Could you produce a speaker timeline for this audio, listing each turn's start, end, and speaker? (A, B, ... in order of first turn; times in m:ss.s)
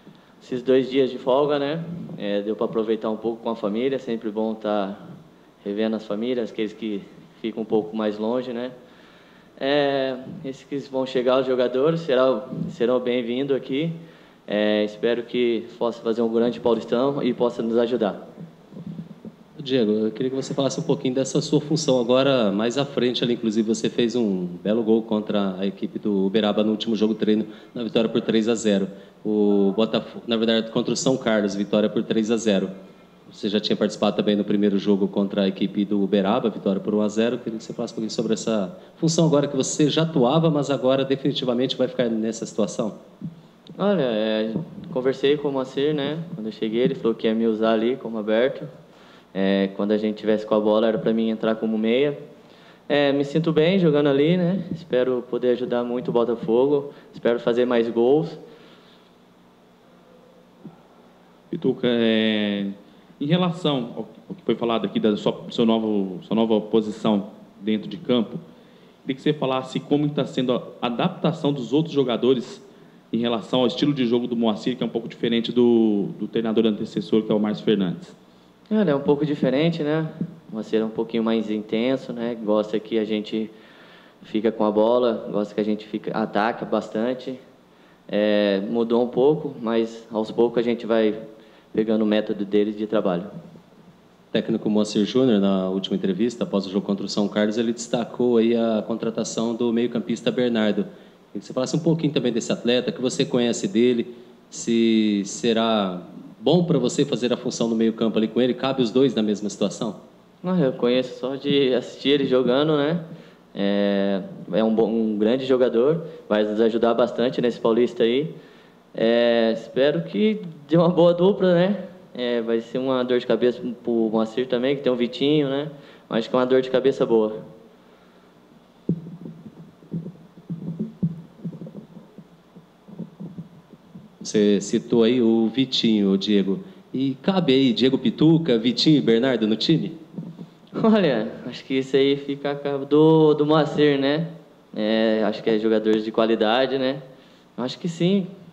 0:00.4-0:05.0 A
0:05.6-0:08.7 A
0:09.6-0:18.2 A
0:19.6-0:32.7 B
0:33.3-0:43.0 B
0:43.8-0:48.7 A
0:49.3-0:52.2 A
0:52.9-0:58.4 A
1:01.5-1:08.4 C
1:09.0-1:18.1 C
1:18.7-1:23.5 A
1:24.2-1:27.4 A
1:28.1-1:31.2 A
1:31.7-1:33.3 A
1:34.3-1:50.0 B
1:50.4-1:53.0 A
1:53.5-1:58.3 A
1:58.9-2:07.4 A
2:14.2-2:20.0 B
2:20.7-2:27.0 A
2:27.6-2:28.3 A